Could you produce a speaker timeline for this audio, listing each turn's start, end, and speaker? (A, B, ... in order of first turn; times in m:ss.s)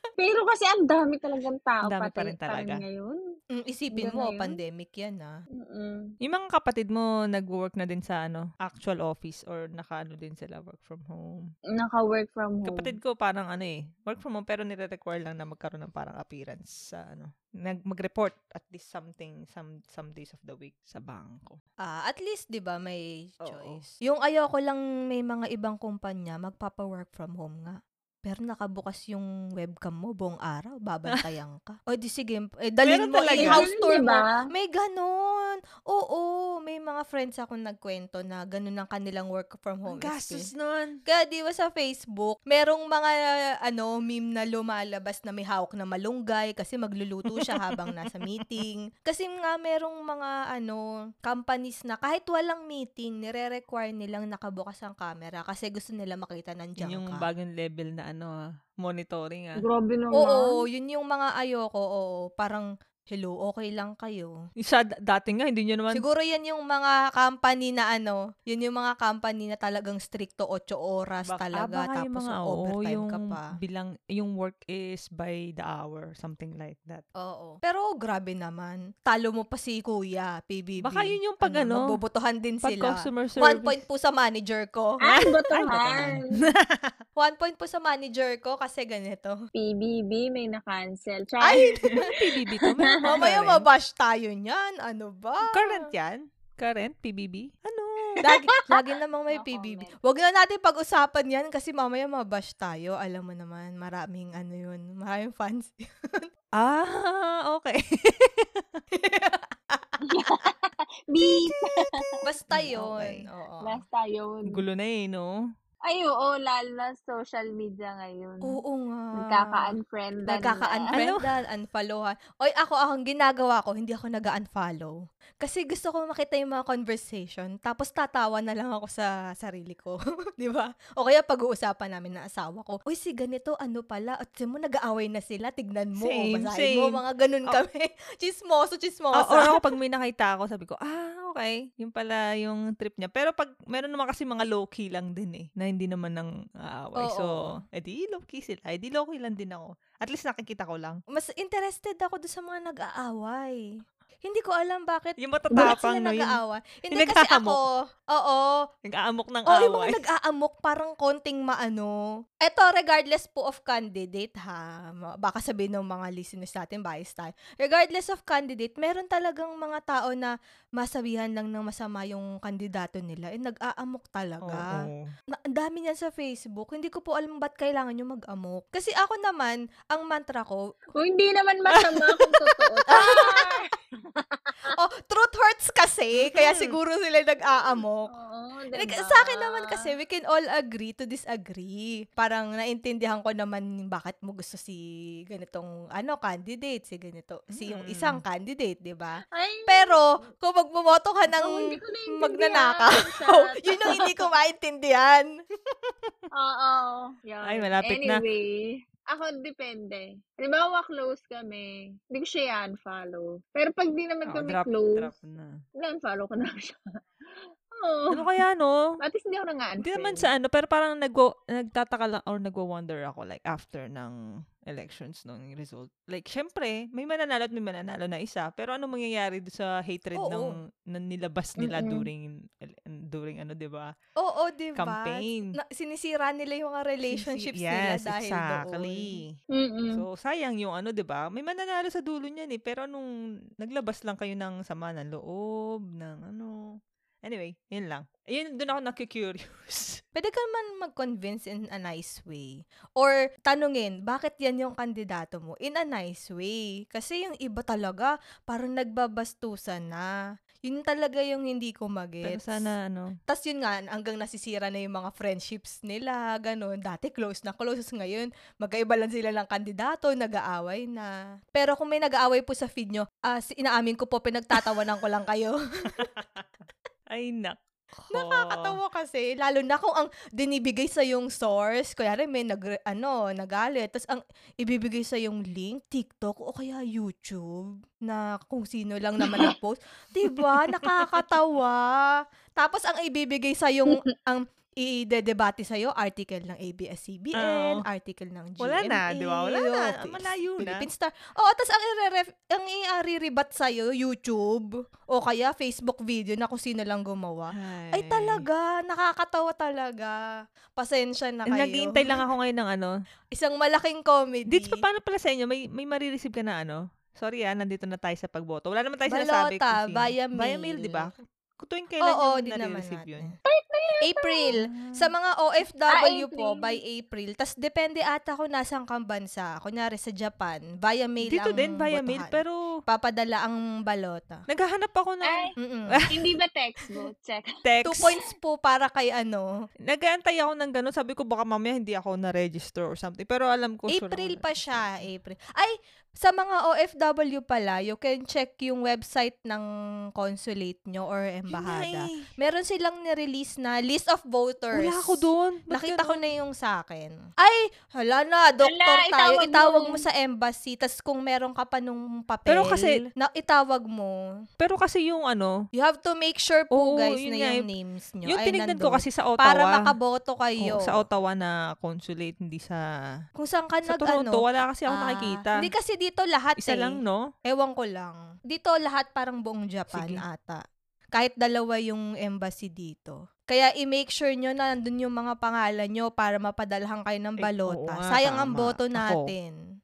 0:00.2-0:03.2 A
0:01.8-0:02.8 B
0:03.5-0:05.3 C
0:03.9-0:04.6 A
0:05.6-0:06.1 A
0:06.2-0:11.4 B
0:11.7-0:13.0 A
0:12.6-0:21.6 B
0:21.8-0:40.5 C
0:23.4-0:23.8 B
0:32.8-0:33.6 B
0:33.4-0:34.4 A
0:39.9-0:41.0 B
0:41.0-0:57.2 C
0:47.3-0:48.6 B
0:56.8-0:59.6 B
0:59.6-1:00.6 A
1:00.1-1:04.3 C
1:04.6-1:06.0 B
1:05.9-1:13.5 C
1:11.3-1:17.0 B
1:17.2-1:25.0 C
1:20.8-1:21.9 B
1:22.6-1:23.8 B
1:25.0-1:26.4 A
1:25.0-1:26.9 B
1:27.2-1:29.4 C
1:29.5-1:32.9 A
1:31.4-1:32.1 C
1:32.0-1:33.6 B
1:33.0-1:35.8 C
1:35.5-1:38.2 B
1:38.2-1:46.3 C
1:39.3-1:40.0 A
1:46.6-1:48.8 B
1:48.9-1:50.0 C
1:50.0-1:52.2 A
1:52.2-1:53.8 C
1:52.5-1:53.2 B
1:53.6-1:54.6 A
1:54.5-1:55.3 B
1:55.8-1:58.6 A
1:58.4-1:59.7 C
1:59.1-2:00.9 A
2:00.3-2:19.6 C
2:00.9-2:01.2 B
2:16.0-2:17.6 B
2:19.1-2:31.0 B
2:27.0-2:27.6 C
2:31.1-2:33.6 C
2:34.2-2:38.6 C
2:35.2-2:36.4 B
2:36.9-2:37.6 B
2:38.8-2:40.0 B
2:39.5-2:54.8 C
2:54.4-2:55.1 B
2:55.3-3:00.6 C
3:00.9-3:04.7 A
3:01.7-3:03.2 B
3:02.9-3:03.5 C
3:04.7-3:08.1 C
3:06.2-3:06.7 B
3:08.1-3:09.9 A
3:08.7-3:25.3 C
3:17.5-3:18.2 B
3:19.3-3:20.0 A
3:21.4-3:24.3 A
3:26.3-3:35.1 A
3:27.4-3:28.2 B
3:34.3-3:35.5 B
3:35.8-3:36.8 A
3:37.7-3:38.3 A
3:38.1-3:38.8 B
3:39.0-3:40.3 A
3:39.8-3:44.2 B
3:44.7-3:53.9 B
3:50.2-3:50.5 C
3:51.6-3:52.1 A
3:54.2-3:59.1 C
3:54.8-3:55.5 B
3:57.1-3:59.3 B
3:59.5-4:00.0 A
3:59.9-4:10.0 B
4:10.2-4:20.1 C
4:20.6-4:22.7 C
4:22.2-4:23.1 B
4:23.3-4:36.1 C
4:36.0-4:36.5 B
4:37.1-4:37.6 B
4:38.1-4:38.7 B
4:38.1-5:10.2 C
4:57.4-4:57.8 B
4:58.6-5:00.9 B
5:07.5-5:08.4 B
5:10.8-5:12.2 C
5:11.5-5:12.9 B
5:13.3-5:14.8 C
5:14.5-5:23.3 B
5:19.1-5:21.1 C
5:22.0-5:23.3 C
5:23.4-5:24.5 A
5:24.0-5:34.4 C
5:24.6-5:25.1 B
5:25.9-5:26.8 A
5:31.3-5:32.7 B
5:34.5-5:36.1 B
5:35.2-5:35.5 A
5:35.6-5:36.0 C
5:36.1-5:37.5 A
5:37.6-5:38.1 B
5:37.8-5:39.5 C
5:39.9-5:45.0 B
5:43.9-5:49.6 C
5:50.2-6:04.1 C
5:51.5-5:52.3 B
5:54.7-5:56.2 B
5:58.6-6:00.0 A
6:02.5-6:03.0 B
6:04.6-6:05.5 B
6:05.7-6:11.0 C
6:06.7-6:07.6 B
6:08.3-6:09.9 B
6:10.6-6:12.8 B
6:13.4-6:20.6 C
6:13.9-6:15.6 B
6:16.6-6:17.2 B
6:19.9-6:20.2 B
6:21.1-6:29.5 C
6:27.4-6:29.3 B